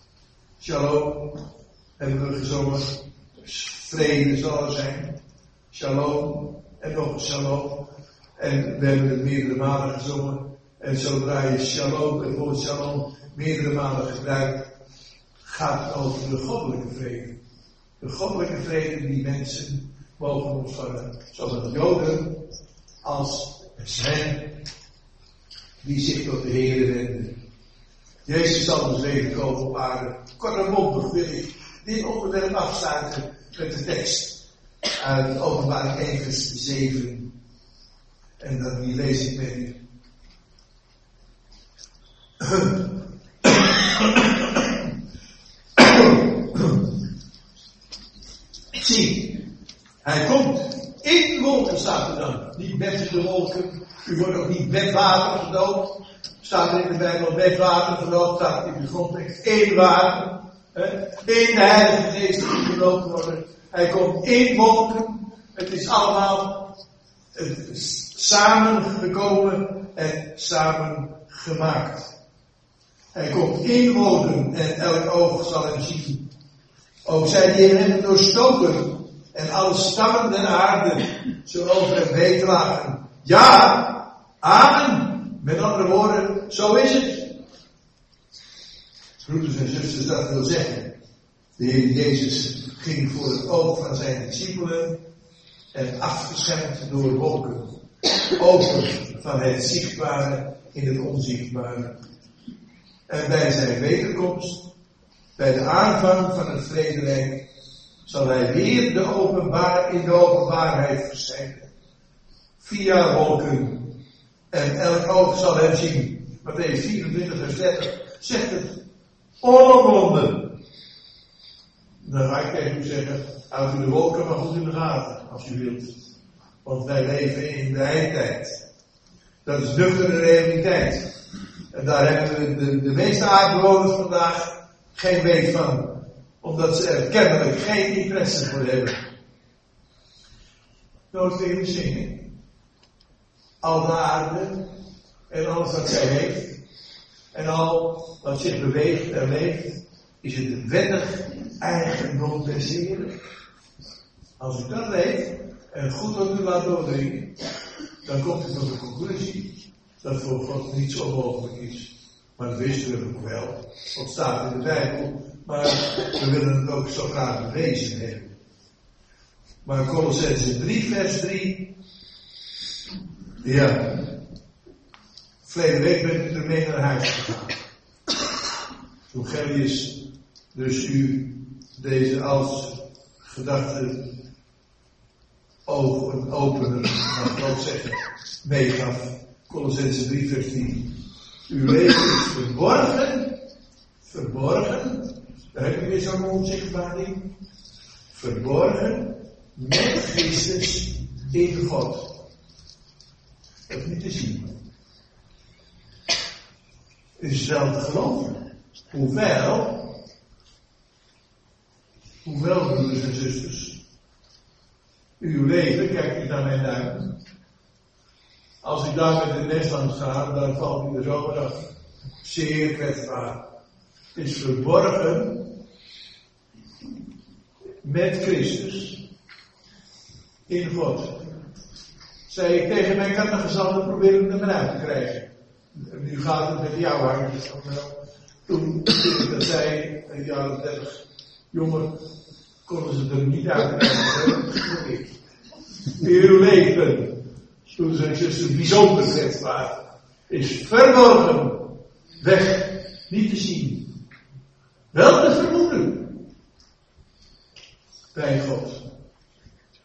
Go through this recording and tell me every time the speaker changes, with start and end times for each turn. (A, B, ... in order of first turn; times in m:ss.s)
0:00.6-0:01.4 A
0:02.0-0:05.2 A
0:05.7-0:07.8 A
0:08.4-0:14.6 A
0:15.4-0:17.4 A
0:18.0-0:22.4 A
0:23.0-0:24.6 A
0:25.8-0:27.3 A
0:28.2-0:34.4 A
0:35.0-0:37.3 A
0:38.4-0:39.8 A
0:42.4-0:42.8 A
0:43.4-0:44.8 A
0:45.8-0:46.9 A
0:48.8-0:49.4 A
0:50.0-1:06.7 A
1:07.3-1:12.1 A
1:13.1-1:16.2 A
1:17.0-1:27.3 A
1:29.2-1:30.9 A
1:31.6-1:35.0 A
1:35.7-1:37.8 A
1:38.4-1:42.0 A
1:43.1-1:44.7 A
1:45.4-1:47.4 A
1:48.0-1:51.7 A
1:52.6-1:54.0 A
1:54.5-1:58.8 A
1:59.4-2:00.6 A
2:02.0-2:05.9 A
2:06.6-2:08.6 A
2:09.4-2:11.0 A
2:11.7-2:19.0 A
2:21.1-2:22.3 A
2:23.6-2:24.6 A
2:25.3-2:26.6 A
2:27.3-2:33.1 A
2:34.4-2:37.3 A
2:38.0-2:48.3 A
2:49.6-2:51.7 A
2:53.4-2:54.1 A
2:55.4-2:57.6 A
2:59.1-3:04.1 A
3:05.7-3:10.9 A
3:11.5-3:13.4 A
3:14.0-3:17.3 A
3:18.1-3:22.2 A
3:23.7-3:24.6 A
3:27.2-3:28.4 A
3:28.9-3:30.0 A
3:32.2-3:33.8 A
3:35.2-3:37.2 A
3:38.6-3:41.6 A
3:42.2-3:43.4 A
3:44.2-3:45.5 A
3:47.8-3:49.0 A
3:50.5-3:51.2 A
3:52.3-3:57.9 A
3:58.5-4:02.0 A
4:02.6-4:05.2 A
4:06.0-4:07.2 A
4:07.7-4:09.8 A
4:10.3-4:13.9 A
4:14.9-4:16.2 A
4:18.1-4:18.8 A